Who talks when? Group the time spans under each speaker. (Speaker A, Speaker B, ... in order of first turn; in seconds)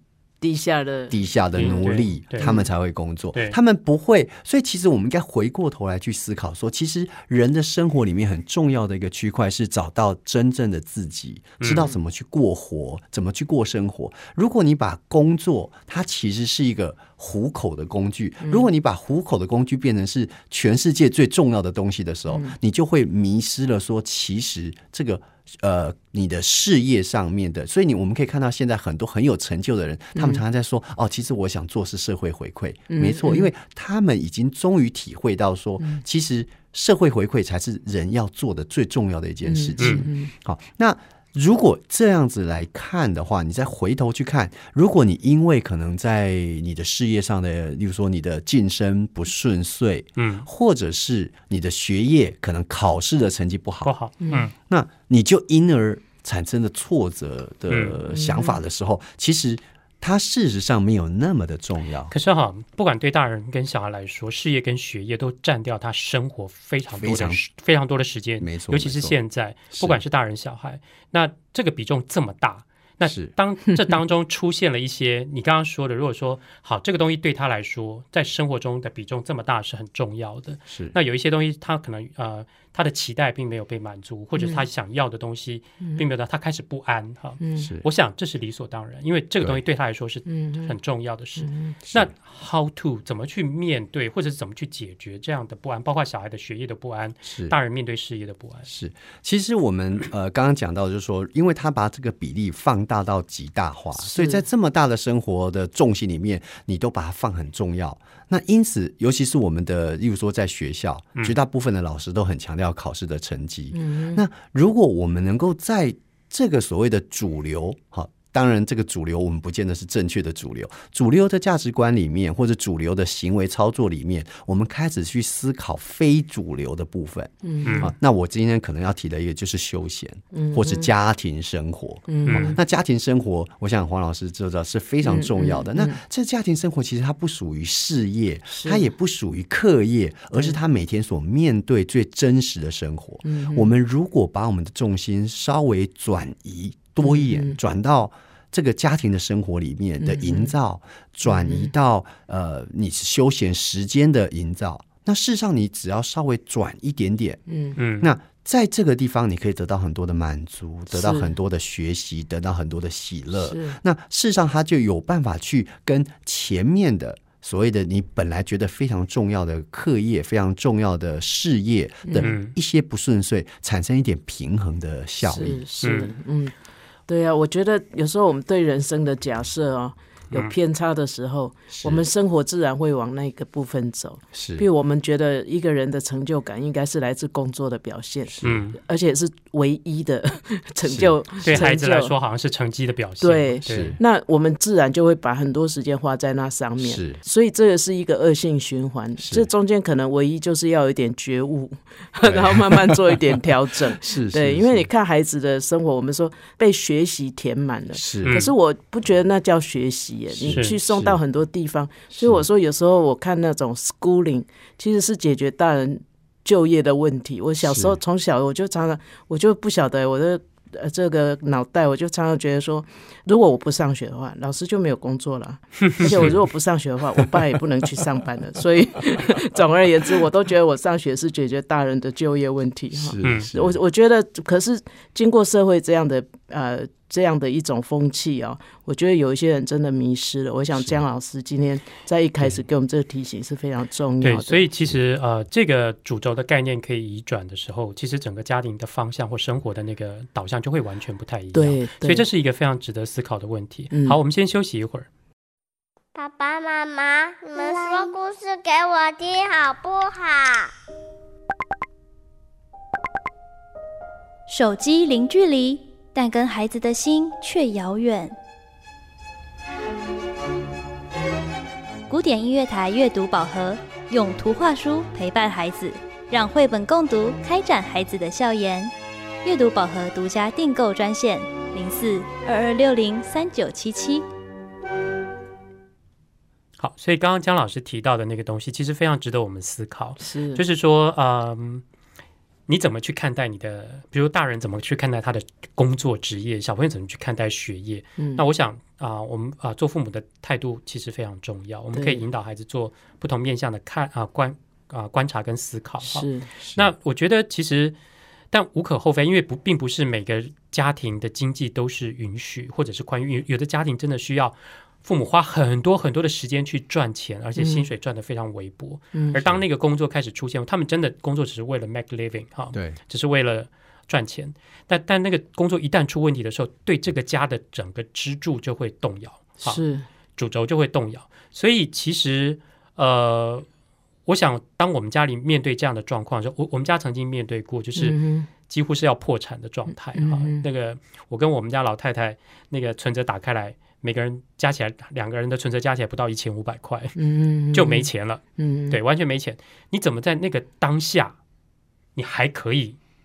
Speaker A: 0.4-2.7, 22.3-22.6, 30.1-30.4, 32.9-33.5, 39.5-40.3, 54.2-54.5, 58.1-58.6, 84.4-84.6, 87.4-87.7, 90.3-90.7, 91.4-91.8, 104.0-104.4, 113.7-114.2, 127.4-127.9, 130.3-130.9, 132.1-132.6, 135.0-136.0, 138.5-138.9, 143.2-143.7, 147.0-147.6, 150.0-150.5, 151.3-151.7, 157.5-157.8, 160.9-161.3, 163.4-163.8, 172.1-172.3, 175.2-176.5, 177.1-192.1, 193.2-244.6, 251.5-252.2, 253.9-254.2, 290.2-290.6, 298.2-298.4, 301.9-302.2, 306.0-306.5, 317.6-317.9, 319.1-319.4, 329.6-330.1, 338.0-338.5, 340.2-340.6, 347.2-349.0
Speaker B: 1.1-53.9, 54.6-62.1, 67.0-67.4, 68.4-69.2, 69.7-70.0, 73.0-73.3, 80.7-81.0, 97.3-97.6, 98.7-157.4, 158.0-175.6, 181.7-182.0, 184.3-184.7, 188.3-188.7, 190.8-191.6, 193.7-194.0, 196.8-197.2, 199.2-199.5, 202.2-203.4, 204.0-204.9, 208.0-208.4, 210.3-211.2, 212.1-212.4, 217.6-218.0, 226.1-226.3, 232.9-233.8, 240.8-241.0, 306.6-306.9, 322.7-323.0
Speaker C: 1.6-2.5, 11.6-11.9, 50.2-50.5, 53.8-54.5, 57.7-58.0, 62.1-98.7, 127.7-127.9, 132.3-132.6, 157.8-158.1, 172.2-172.5, 175.8-176.1, 188.4-188.8, 191.4-194.0, 208.2-208.5, 210.5-210.8, 225.8-226.3, 233.2-233.5, 244.2-255.1, 286.8-291.8, 292.7-308.0, 308.5-329.8, 330.4-333.7, 334.3-347.2, 347.7-351.4, 352.2-353.0
Speaker D: 256.1-260.7
Speaker E: 264.5-268.4, 272.1-278.9, 279.4-284.3